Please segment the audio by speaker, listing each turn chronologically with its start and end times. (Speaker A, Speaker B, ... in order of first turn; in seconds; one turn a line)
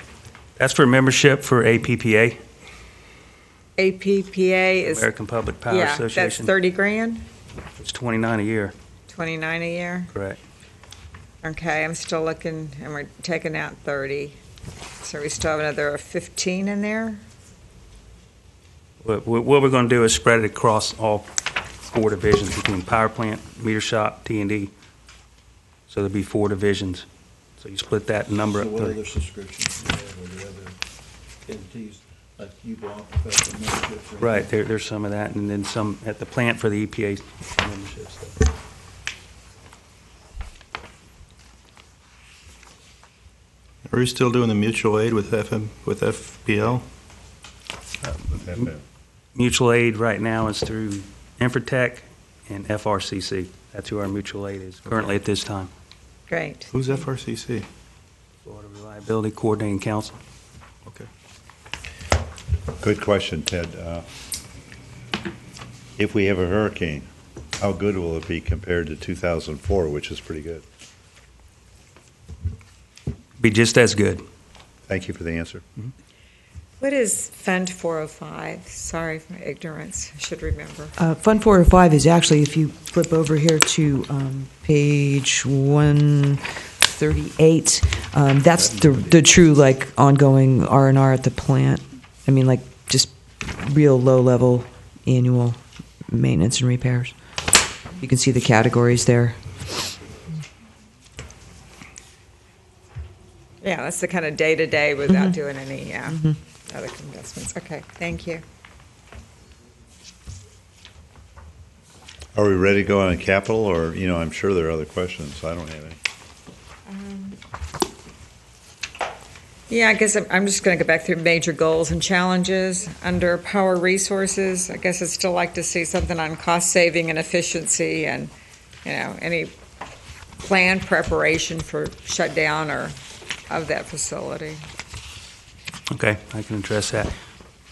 Speaker A: 0.6-2.4
Speaker B: 3.8-5.1
Speaker A: 4.8-6.5
Speaker B: 5.7-7.2
Speaker A: 7.8-8.7
Speaker B: 9.1-10.1
Speaker A: 10.1-10.4
Speaker B: 11.4-14.4
Speaker B: 15.0-17.2
Speaker A: 19.0-21.3
Speaker A: 21.8-24.7
Speaker A: 25.9-27.1
Speaker A: 27.6-29.0
Speaker C: 28.5-30.8
Speaker C: 31.4-34.5
Speaker A: 34.2-38.4
Speaker D: 43.9-46.9
Speaker E: 48.2-48.8
Speaker A: 49.3-55.7
Speaker B: 56.3-56.7
Speaker D: 56.7-57.7
Speaker A: 58.4-60.2
Speaker E: 62.8-64.0
Speaker E: 66.0-67.1
Speaker E: 67.6-70.6
Speaker A: 73.4-74.2
Speaker E: 74.9-75.6
Speaker B: 76.8-80.9
Speaker F: 81.0-97.1
Speaker F: 98.0-99.6
Speaker B: 103.6-108.4
Speaker E: 112.3-116.0
Speaker B: 116.9-117.4
Speaker B: 119.7-128.3
Speaker B: 128.8-129.5
Speaker B: 130.4-133.0
Speaker B: 133.5-134.6
Speaker A: 135.9-137.1